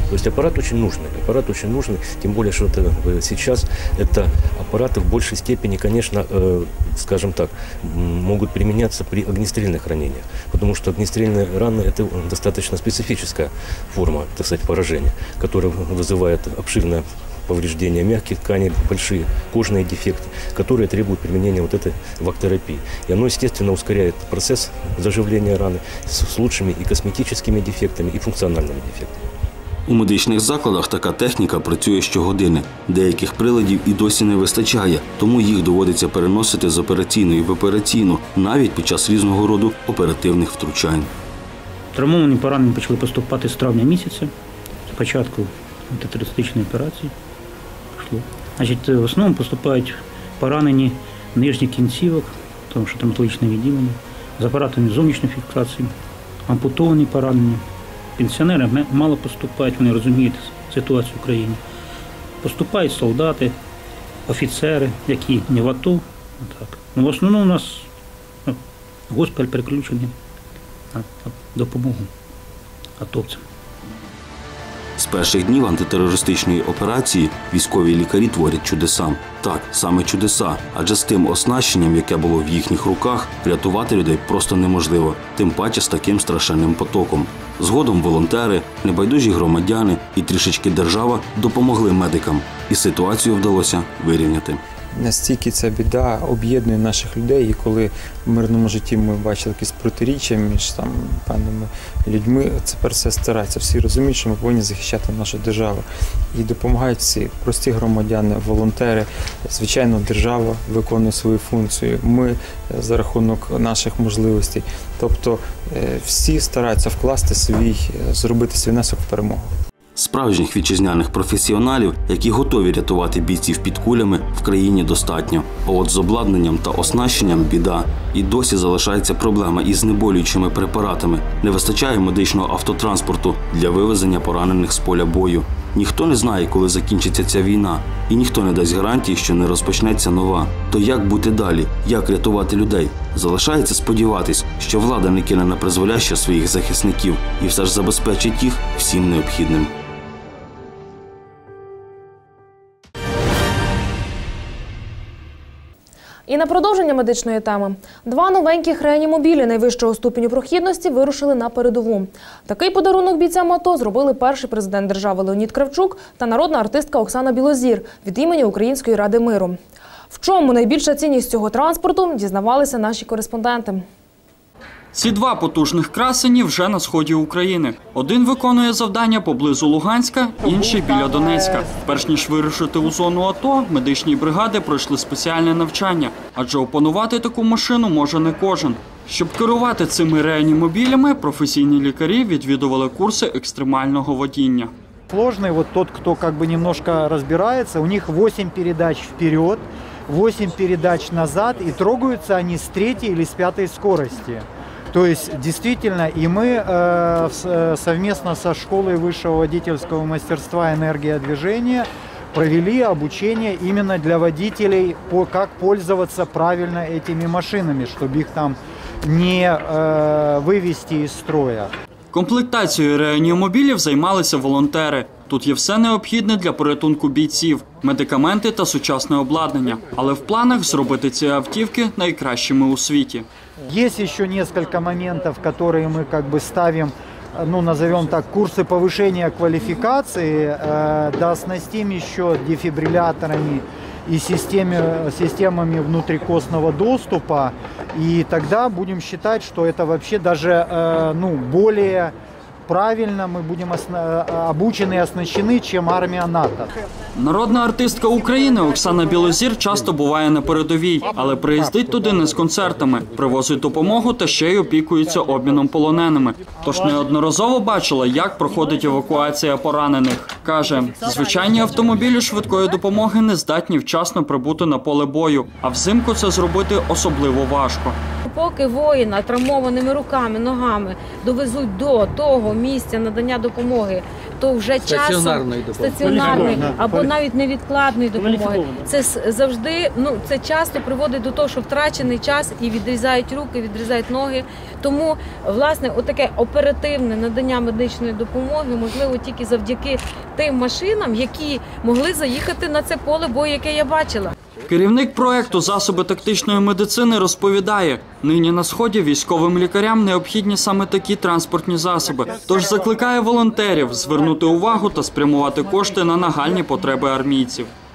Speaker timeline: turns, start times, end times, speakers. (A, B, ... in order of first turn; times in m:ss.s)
0:00.1-0:29.2 A
0:29.9-0:41.1 B
0:41.9-0:44.3 C
0:44.9-0:47.1 C
0:47.9-0:55.9 C
0:56.5-0:57.6 C
0:58.2-1:01.6 C
1:02.4-1:03.6 C
1:04.3-1:07.9 C
1:08.4-1:10.1 C
1:10.9-1:12.1 C
1:13.0-1:13.4 C
1:15.0-1:34.6 B
1:34.9-1:59.5 D
2:00.0-2:29.7 B
2:36.3-2:49.6 E
2:50.1-2:53.8 E
2:54.9-3:14.7 F
3:00.4-3:02.1 G
3:15.1-3:41.7 G
3:42.1-3:53.3 F
3:53.7-4:12.1 G
4:12.7-4:16.7 G
4:17.2-4:38.0 F
4:38.2-5:04.3 H
5:04.7-5:17.7 F